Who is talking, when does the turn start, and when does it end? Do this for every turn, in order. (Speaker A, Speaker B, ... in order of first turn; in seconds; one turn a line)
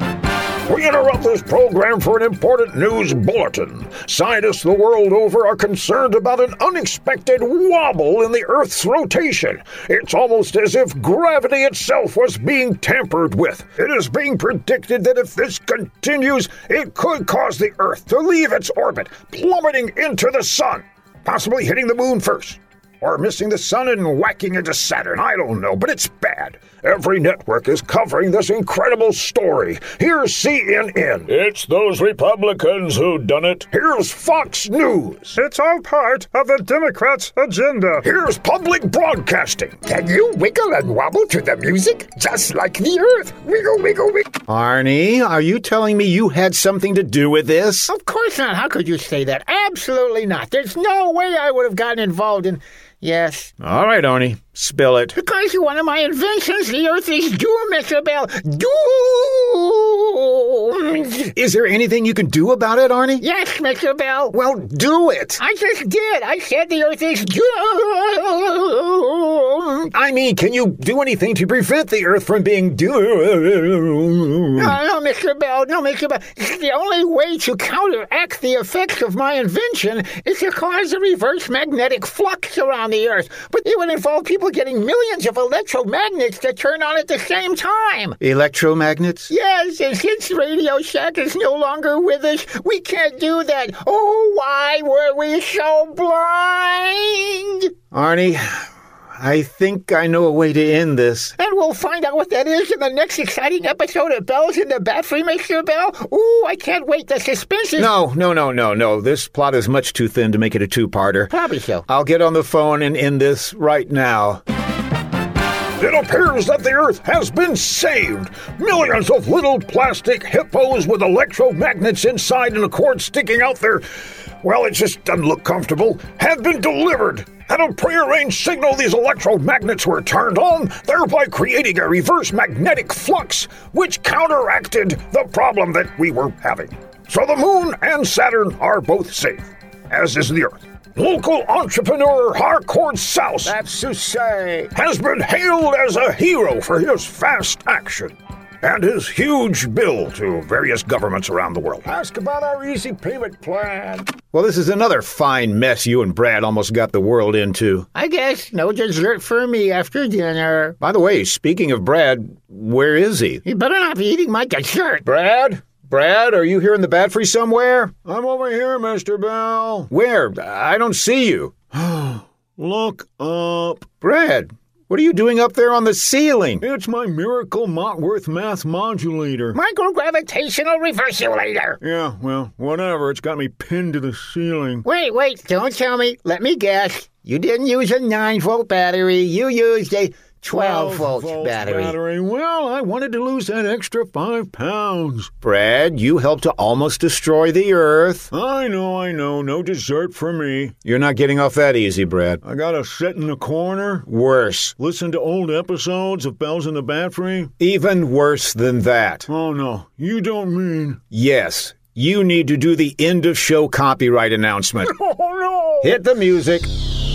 Speaker A: 0.7-39.8
Speaker B: 39.9-44.2
Speaker C: 44.4-47.9
Speaker B: 47.9-53.5
Speaker C: 53.6-55.2
Speaker B: 55.1-61.3
Speaker C: 61.3-63.2
Speaker B: 63.2-64.4
Speaker C: 64.3-65.4
Speaker B: 65.4-69.9
Speaker C: 69.9-73.2
Speaker A: 73.2-74.4
Speaker B: 74.5-88.2
Speaker C: 88.2-89.3
Speaker B: 89.3-97.7
Speaker C: 97.9-101.3
Speaker B: 101.4-107.9
Speaker C: 107.8-111.3
Speaker B: 111.3-111.8
Speaker C: 111.9-114.4
Speaker A: 115.8-143.6
Speaker C: 143.4-144.7
Speaker A: 144.7-154.2
Speaker C: 154.2-157.9
Speaker B: 157.9-160.8
Speaker C: 160.8-163.4
Speaker B: 163.4-165.1
Speaker C: 165.0-168.0
Speaker A: 168.0-169.9
Speaker C: 169.9-171.6
Speaker A: 171.7-173.9
Speaker C: 174.0-176.6
Speaker A: 176.6-179.6
Speaker B: 179.5-181.8
Speaker A: 181.8-184.8
Speaker B: 184.8-191.9
Speaker A: 190.5-195.3
Speaker C: 195.4-198.3
Speaker A: 198.3-200.8
Speaker C: 200.8-202.4
Speaker A: 202.4-204.1
Speaker C: 204.1-204.8
Speaker A: 204.8-207.5
Speaker C: 207.6-209.3
Speaker A: 209.3-211.0
Speaker C: 211.1-214.9
Speaker A: 214.8-215.9
Speaker C: 215.8-216.7